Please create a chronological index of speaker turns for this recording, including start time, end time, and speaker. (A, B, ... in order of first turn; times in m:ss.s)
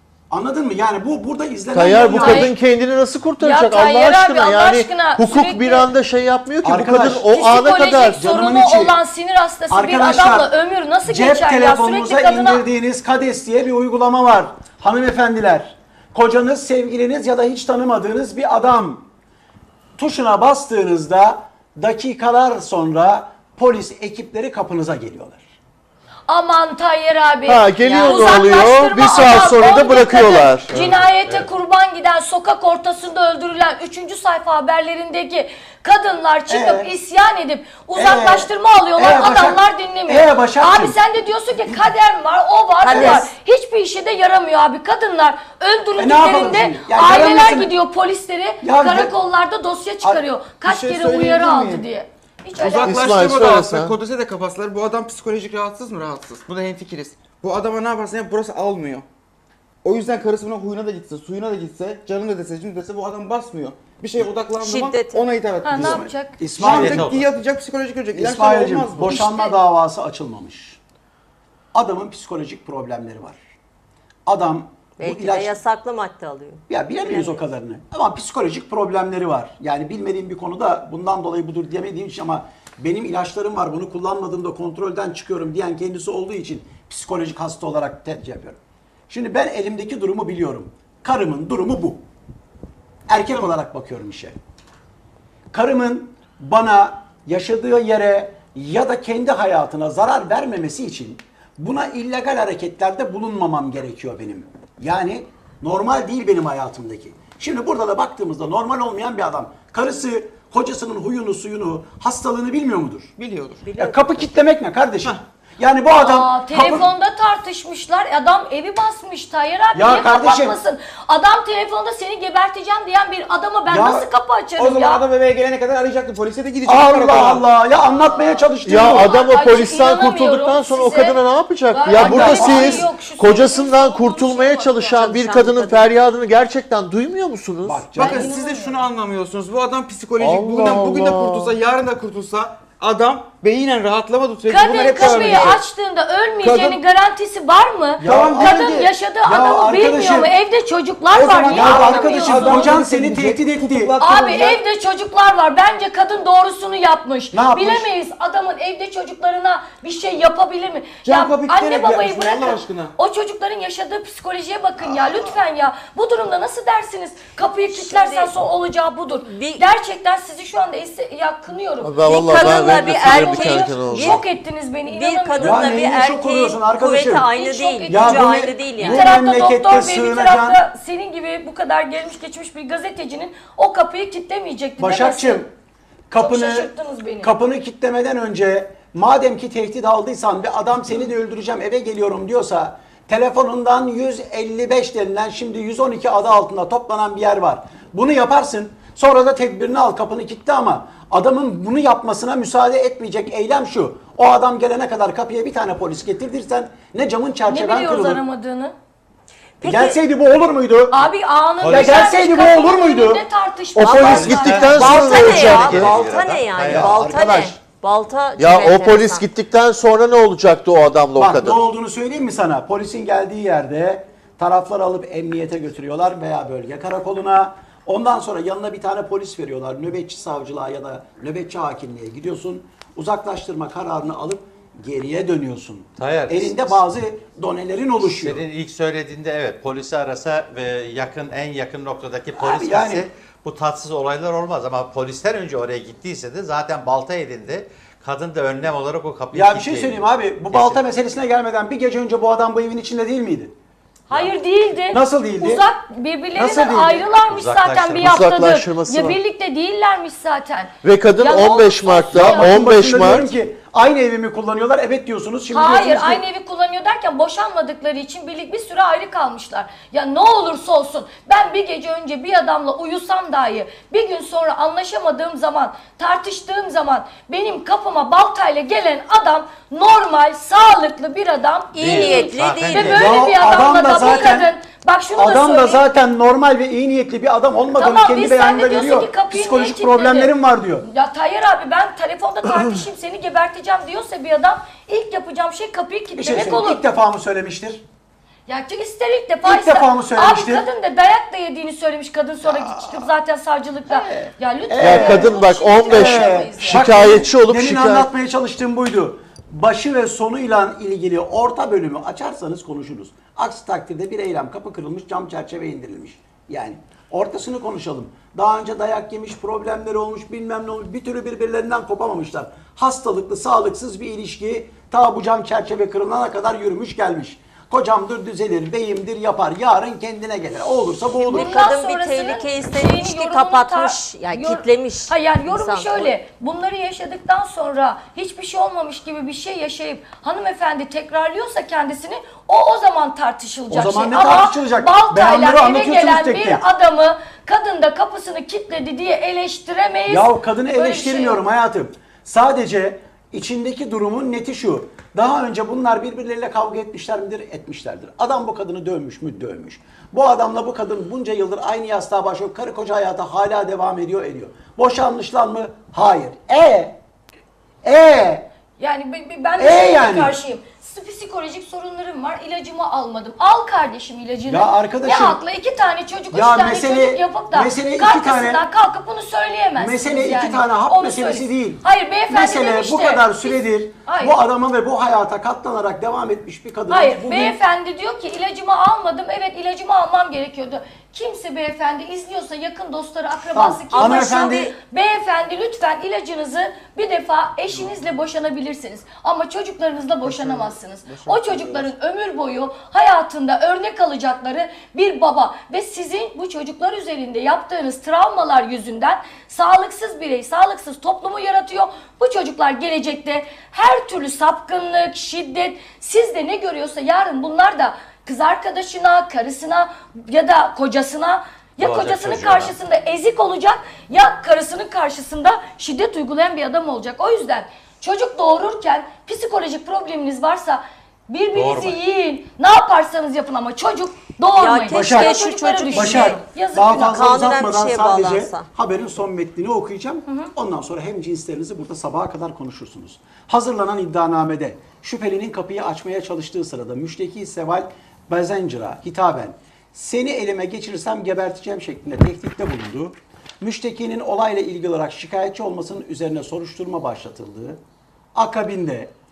0:00.3-0:02.5 A
0:01.7-0:08.2 B
0:02.1-0:02.5 C
0:03.4-0:05.9 C
0:06.6-0:07.3 A
0:07.3-0:12.6 C
0:08.1-0:09.0 A
0:09.7-0:10.5 A
0:11.0-0:19.0 A
0:20.0-0:25.4 A
0:26.3-0:53.0 C
0:27.5-0:30.8 B
0:27.8-0:28.2 D
0:30.8-0:31.4 E
0:36.5-0:36.9 A
0:37.9-0:41.0 A
0:42.8-0:43.3 D
0:42.9-0:43.2 A
0:46.0-0:47.7 A
0:48.6-0:49.1 A
0:50.6-0:51.8 F
0:52.6-0:59.0 F
0:52.8-0:53.9 B
0:59.8-1:09.2 F
1:04.6-1:05.3 D
1:05.6-1:06.4 C
1:05.7-1:07.1 A
1:06.6-1:07.2 E
1:08.1-1:10.8 A
1:09.1-1:09.5 C
1:11.7-1:13.4 A
1:14.2-1:15.6 A
1:15.0-1:17.4 D
1:16.7-1:28.6 A
1:29.1-1:32.0 A
1:33.1-1:34.4 A
1:35.5-1:53.1 A
1:53.2-1:54.0 F
1:53.8-1:56.9 A
1:55.9-2:05.0 C
1:59.7-2:00.6 A
2:03.7-2:04.1 A
2:04.6-2:07.4 F
2:06.6-2:09.1 A
2:08.2-2:15.1 C
2:08.6-2:17.9 B
2:11.9-2:12.9 A
2:15.0-2:15.9 D
2:17.6-2:18.3 A
2:17.9-2:25.6 F
2:18.0-2:18.8 C
2:20.2-2:21.5 B
2:24.5-2:32.7 C
2:26.4-2:26.8 F
2:28.0-2:28.9 F
2:28.0-2:28.7 A
2:29.2-2:30.3 A
2:31.1-2:34.6 F
2:31.5-2:33.9 A
2:34.0-2:55.7 C
2:37.3-2:37.9 A
2:41.0-2:42.9 F
2:47.7-2:48.3 D
2:49.2-2:49.6 D
2:51.8-2:54.2 B
2:52.0-2:54.2 D
2:54.9-2:59.1 D
2:55.4-2:57.3 A
2:57.3-3:05.4 C
2:57.9-3:00.6 A
3:04.8-3:05.5 A
3:06.1-3:28.2 A
3:06.2-3:07.3 C
3:27.5-3:28.7 C
3:29.6-3:30.0 D
3:29.6-3:31.0 A
3:30.9-3:35.1 C
3:31.6-3:32.2 E
3:31.7-3:33.2 A
3:33.7-3:35.8 B
3:33.8-3:37.6 A
3:33.8-3:37.0 E
3:34.8-3:39.3 D
3:38.4-3:41.6 B
3:41.2-3:58.4 A
3:56.0-3:56.8 E
3:58.0-4:10.8 E
4:02.4-4:03.0 A
4:09.3-4:13.5 A
4:14.1-4:22.7 C
4:14.9-4:15.7 A
4:16.3-4:17.1 A
4:17.3-4:18.1 E
4:18.0-4:19.2 B
4:20.8-4:23.3 B
4:22.1-4:26.2 A
4:25.5-4:45.9 C
4:41.7-4:42.9 D
4:41.8-4:43.0 E
4:42.9-4:44.5 A
4:45.2-4:50.8 A
4:47.8-4:56.8 C
4:56.1-4:57.8 A
4:58.5-5:07.2 C
4:59.4-5:00.6 A
5:02.4-5:03.1 A
5:03.8-5:31.6 A
5:04.8-5:08.1 B
5:31.2-5:51.4 C
5:31.3-5:36.1 D
5:43.7-5:46.6 A
5:50.1-6:06.9 A
6:07.8-6:08.5 A
6:08.8-6:24.4 C
6:09.6-6:10.3 A
6:14.5-6:15.4 A
6:16.3-6:18.6 A
6:19.8-6:27.6 A
6:26.9-7:17.1 C
6:33.5-6:34.7 A
6:33.9-6:34.7 D
6:40.2-6:41.9 F
7:01.8-7:02.7 E
7:11.5-7:12.0 E
7:14.6-7:16.4 D
7:14.9-7:15.4 A
7:15.9-7:37.8 A
7:16.9-7:18.7 D
7:38.3-7:39.1 A